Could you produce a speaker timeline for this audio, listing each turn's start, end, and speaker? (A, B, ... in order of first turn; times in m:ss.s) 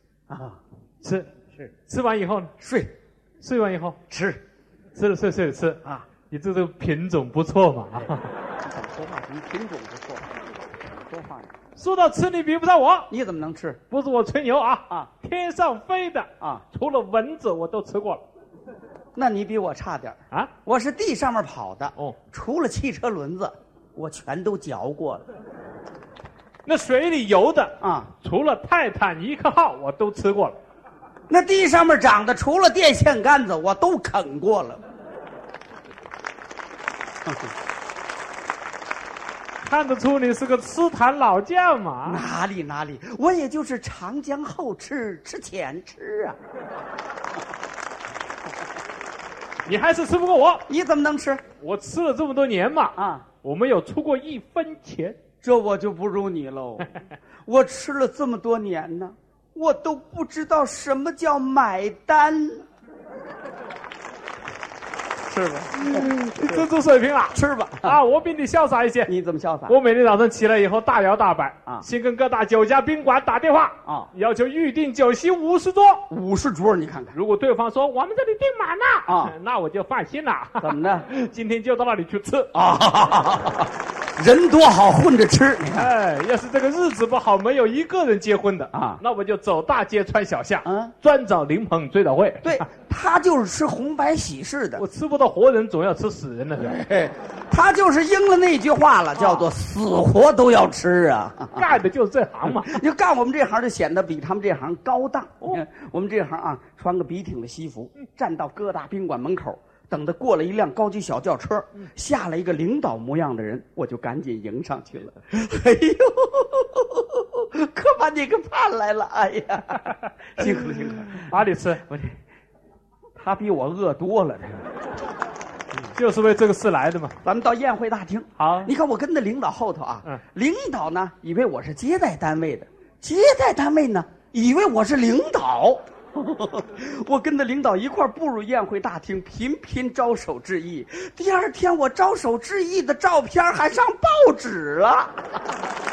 0:00.3-0:00.6 A
0:01.0-0:02.5 B
0:02.6-0:02.9 A
0:03.4-0:04.0 B
0:04.1-0:04.4 A
0:04.9-0:08.3 B
0:08.6-0:11.6 A
0:11.8-0:13.1 B
0:13.1-0:13.8 A
0:13.9-0:18.2 B
0:16.4-0:16.6 A
0:19.1-0:25.2 A
0:26.6-0:30.6 B
0:27.8-0:28.1 A
0:31.3-0:34.8 A
0:39.6-0:42.2 B
0:42.0-0:46.4 A
0:49.6-0:50.6 B
0:50.7-0:51.4 A
0:51.6-0:55.2 B
0:53.0-0:53.3 A
0:55.4-0:56.9 A
0:57.4-1:02.6 A
1:05.2-1:06.6 A
1:05.8-1:09.1 B
1:07.3-1:08.0 A
1:09.1-1:09.8 A
1:09.7-1:16.0 B
1:13.8-1:14.1 A
1:16.1-1:17.1 A
1:17.1-1:22.5 B
1:19.1-1:19.3 A
1:20.6-1:21.1 A
1:22.5-1:25.9 A
1:25.7-1:32.7 B
1:28.7-1:29.0 A
1:30.6-1:30.9 A
1:32.4-1:34.8 A
1:34.8-1:36.8 B
1:36.6-1:41.7 A
1:39.2-1:39.5 B
1:41.5-1:42.8 B
1:42.5-2:01.3 A
2:00.4-2:01.8 B
2:01.9-2:02.2 A
2:03.2-2:04.6 A
2:05.9-2:07.2 B
2:07.2-2:25.3 A
2:08.4-2:08.7 B